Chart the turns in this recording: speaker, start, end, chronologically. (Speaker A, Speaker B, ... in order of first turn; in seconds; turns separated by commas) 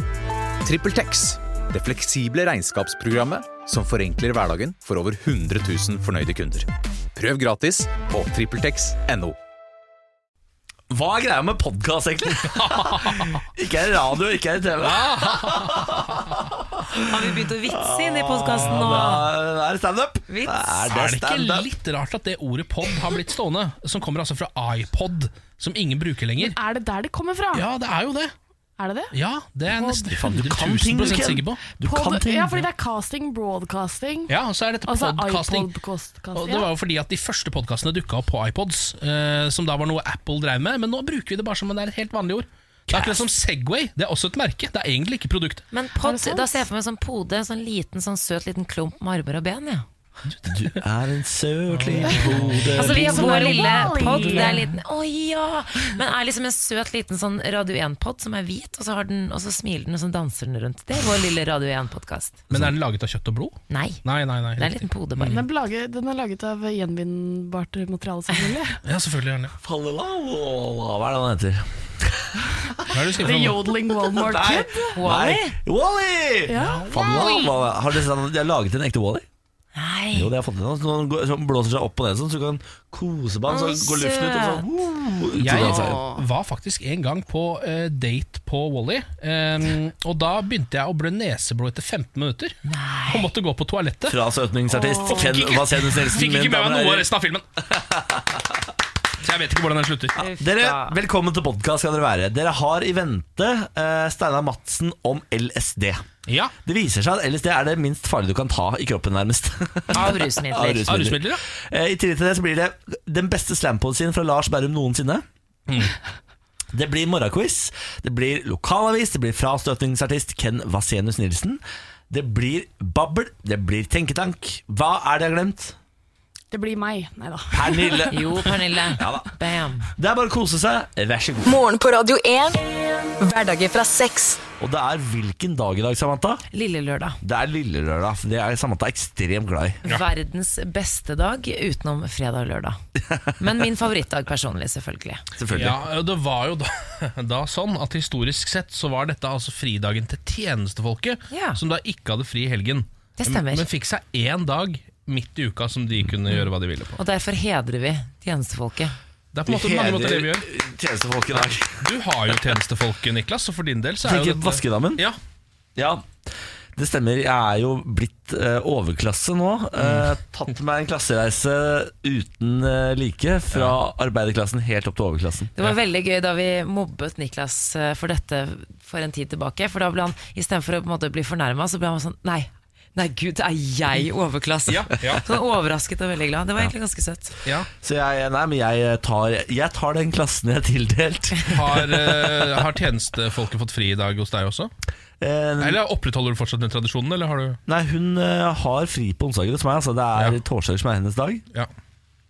Speaker A: 0.6-9.4, Speaker B: 10.9-21.7, Speaker C: 12.4-13.4, Speaker C: 14.8-16.4, Speaker D: 16.9-19.3, Speaker D: 20.3-20.9, Speaker C: 20.9-26.6, Speaker E: 26.4-27.6, Speaker C: 27.5-28.3, Speaker E: 28.8-29.1, Speaker C: 29.1-31.6, Speaker E: 29.7-30.2, Speaker B: 30.1-32.6, Speaker E: 31.8-34.3, Speaker C: 34.3-35.7, Speaker E: 34.9-36.7, Speaker C: 36.3-45.6, Speaker B: 42.9-43.2, Speaker D: 45.7-49.8, Speaker E: 46.0-46.6, Speaker C: 50.3-50.8, Speaker B: 50.5-53.5, Speaker C: 51.7-52.9, Speaker E: 52.7-54.7, Speaker D: 52.8-62.4, Speaker C: 53.8-54.4, Speaker C: 62.5-65.5, Speaker D: 63.7-64.0, Speaker D: 64.6-65.4, Speaker E: 65.2-68.8, Speaker C: 68.8-69.5, Speaker B: 69.6-72.9, Speaker C: 72.9-73.7, Speaker E: 73.2-75.0, Speaker B: 74.0-79.2, Speaker D: 74.9-75.5, Speaker E: 76.5-77.5, Speaker D: 79.8-80.3, Speaker B: 80.1-86.0, Speaker D: 83.5-84.7, Speaker C: 85.4-92.6, Speaker E: 85.7-86.2, Speaker D: 92.7-93.3, Speaker C: 93.1-94.2, Speaker B: 94.1-97.1, Speaker E: 94.8-95.3, Speaker C: 95.0-97.4, Speaker B: 97.7-98.5, Speaker C: 99.2-100.2, Speaker D: 100.2-101.0, Speaker B: 100.2-106.0, Speaker C: 106.3-106.5, Speaker B: 106.6-115.2, Speaker D: 109.9-111.0, Speaker C: 110.9-111.4, Speaker C: 115.7-115.9, Speaker B: 116.7-125.8, Speaker E: 126.5-128.2, Speaker B: 127.5-128.4, Speaker D: 128.1-129.9, Speaker B: 128.9-129.3, Speaker B: 129.9-131.6, Speaker F: 131.4-132.6, Speaker F: 133.2-134.4, Speaker B: 134.6-136.4, Speaker D: 136.5-137.2, Speaker B: 137.2-139.8, Speaker D: 139.8-142.8, Speaker D: 143.4-145.2, Speaker B: 145.4-145.8, Speaker C: 145.5-157.0, Speaker D: 151.3-151.6, Speaker D: 153.2-153.7, Speaker D: 157.0-158.9, Speaker C: 159.3-160.5, Speaker B: 159.4-162.5, Speaker C: 161.8-165.2, Speaker B: 164.0-165.1, Speaker B: 165.8-166.1, Speaker B: 166.7-175.5, Speaker C: 169.8-170.1, Speaker C: 173.5-173.8, Speaker D: 175.6-187.4, Speaker C: 184.7-185.2, Speaker B: 187.8-192.7, Speaker C: 191.5-194.7, Speaker B: 195.2-195.8, Speaker C: 195.6-197.6, Speaker B: 197.7-201.4